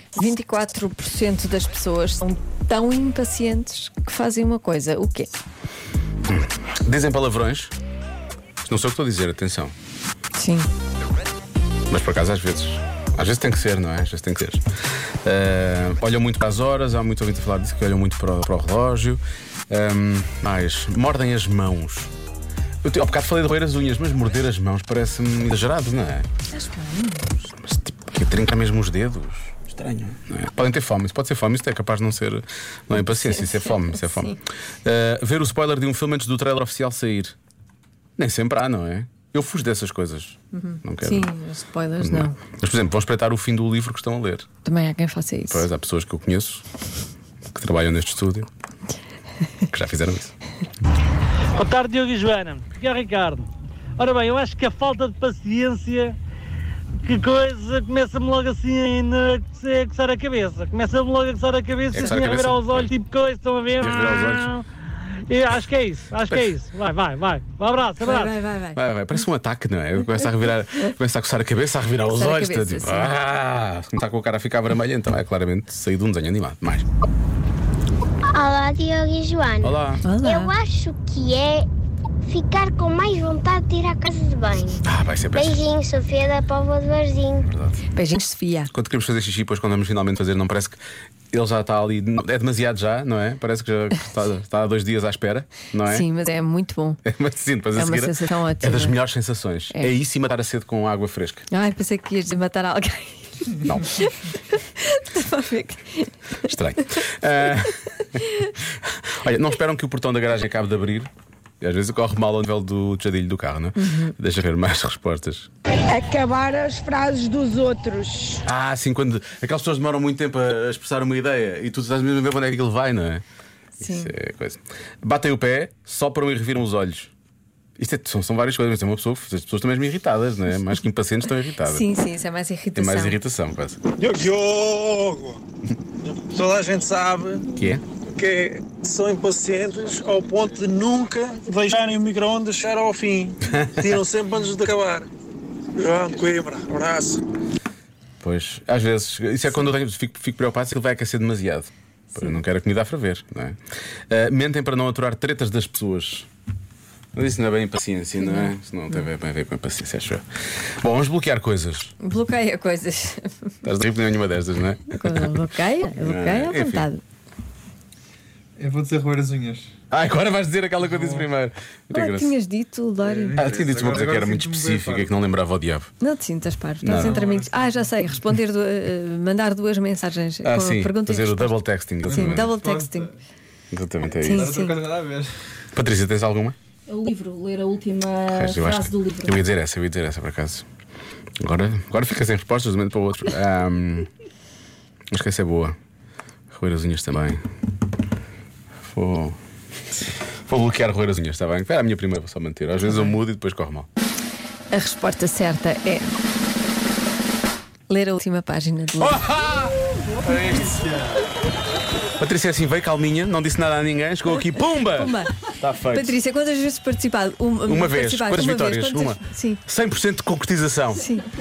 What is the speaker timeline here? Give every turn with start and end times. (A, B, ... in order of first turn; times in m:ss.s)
0:00.2-0:05.3 A
0:06.3-0:07.7 B
0:08.6-0:09.7 B
0:10.3-0:10.7 A
0:11.9-0:14.6 B
0:15.2-0:22.1 B
0:22.8-0:26.3 B
0:26.5-0:27.3 A
0:27.6-0:37.3 B
0:33.0-0:34.4 A
0:38.2-0:41.3 B
0:40.5-0:42.4 A
0:42.0-0:44.5 B
0:44.6-0:45.6 A
0:45.5-0:46.6 B
0:47.5-0:48.5 B
0:49.7-0:50.3 B
0:51.5-0:56.2 C
0:57.0-1:04.6 C
1:01.9-1:02.9 B
1:02.0-1:02.2 A
1:03.8-1:04.5 B
1:05.3-1:08.3 C
1:08.0-1:08.8 A
1:08.7-1:16.9 B
1:12.1-1:13.1 A
1:18.3-1:21.7 D
1:19.6-1:20.0 B
1:20.0-1:20.5 A
1:22.2-1:24.8 D
1:24.8-1:25.6 B
1:25.3-1:27.5 D
1:27.4-1:27.8 B
1:27.9-1:28.7 A
1:28.7-1:30.8 B
1:31.3-1:36.1 B
1:35.9-1:37.0 A
1:37.0-1:41.4 B
1:37.7-1:39.0 A
1:41.5-1:47.0 A
1:43.6-1:44.0 B
1:46.4-1:55.5 B
1:48.1-1:48.5 A
1:53.8-1:54.1 A
1:55.8-1:58.4 E
1:58.4-2:03.2 B
2:03.8-2:07.1 B
2:03.8-2:04.1 A
2:07.8-2:11.9 B
2:11.6-2:13.2 A
2:12.8-2:13.8 B
2:14.0-2:15.4 F
2:16.1-2:17.5 F
2:17.6-2:17.8 B
2:18.2-2:25.1 F
2:25.8-2:27.2 F
2:28.2-2:33.6 B
2:34.1-2:36.3 B
2:37.1-2:40.2 B
2:38.2-2:38.5 A
2:40.8-2:41.9 B
2:42.0-2:43.5 A
2:43.6-2:45.4 B
2:44.9-2:47.0 A
2:46.0-2:46.9 B
2:48.6-2:49.7 G
2:49.9-2:52.3 B
2:50.9-2:51.2 G
2:51.9-2:53.4 A
2:53.0-2:55.1 G
2:53.4-2:55.9 B
2:56.0-3:03.1 A
2:56.8-2:57.2 B
2:57.0-2:57.9 G
3:00.4-3:02.5 B
3:02.0-3:03.2 G
3:03.7-3:04.6 B
3:04.2-3:04.8 A
3:04.2-3:05.3 G
3:05.7-3:06.6 B
3:06.9-3:09.4 H
3:08.2-3:10.6 B
3:11.4-3:14.1 B
3:15.1-3:15.8 B
3:16.5-3:17.4 B
3:18.8-3:19.4 B
3:20.5-3:23.9 B
3:22.9-3:23.2 A
3:24.7-3:26.1 A
3:27.9-3:29.2 A
3:29.0-3:31.0 B
3:32.2-3:36.2 B
3:34.9-3:39.6 A
3:37.6-3:41.0 B
3:40.9-3:41.2 A